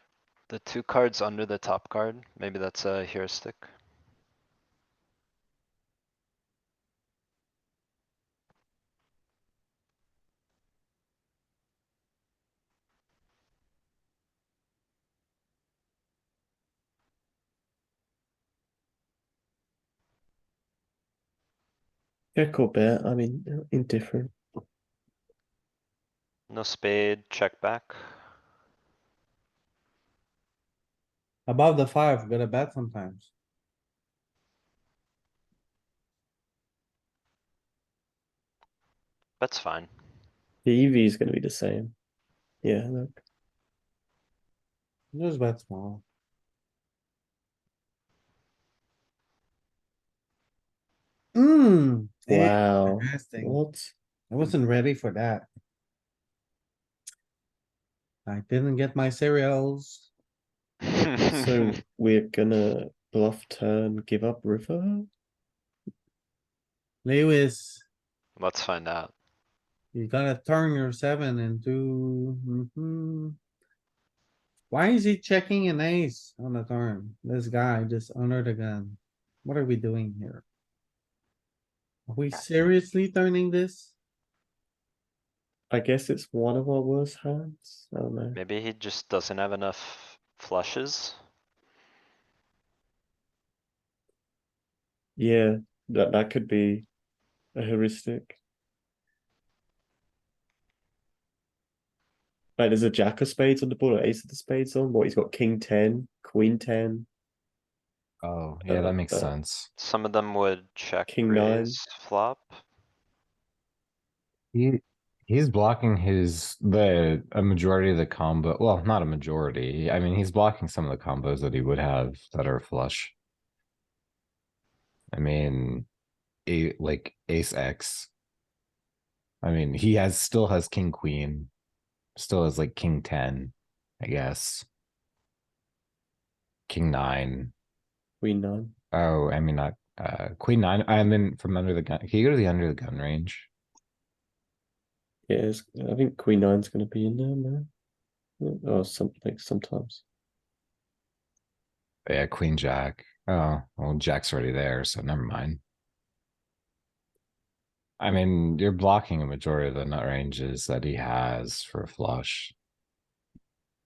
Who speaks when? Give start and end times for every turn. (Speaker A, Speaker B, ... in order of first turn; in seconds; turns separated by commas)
Speaker A: 0.5-3.7, Speaker B: 22.4-24.3, Speaker A: 26.5-28.0, Speaker C: 31.5-33.3, Speaker A: 39.4-39.9, Speaker B: 40.6-41.9, Speaker B: 42.6-43.2, Speaker C: 45.1-46.0, Speaker C: 51.4-53.6, Speaker B: 52.3-53.9, Speaker C: 54.3-55.5, Speaker C: 58.3-60.1, Speaker B: 61.3-65.1, Speaker C: 67.0-67.8, Speaker A: 68.4-69.1, Speaker C: 69.9-73.4, Speaker C: 74.7-80.4, Speaker C: 82.1-84.0, Speaker B: 85.7-88.4, Speaker A: 88.3-91.2, Speaker B: 95.2-96.9, Speaker B: 97.5-98.4, Speaker B: 102.6-107.1, Speaker D: 108.2-109.7, Speaker B: 108.7-109.3, Speaker A: 109.8-112.6, Speaker B: 111.1-111.8, Speaker D: 114.5-123.1, Speaker D: 125.1-125.9, Speaker D: 126.5-128.1, Speaker D: 129.4-131.5, Speaker D: 132.2-134.7, Speaker D: 136.7-137.5, Speaker B: 138.2-138.7, Speaker D: 138.9-143.5, Speaker B: 145.3-147.7, Speaker B: 148.4-150.0, Speaker D: 152.1-155.6, Speaker D: 158.0-162.5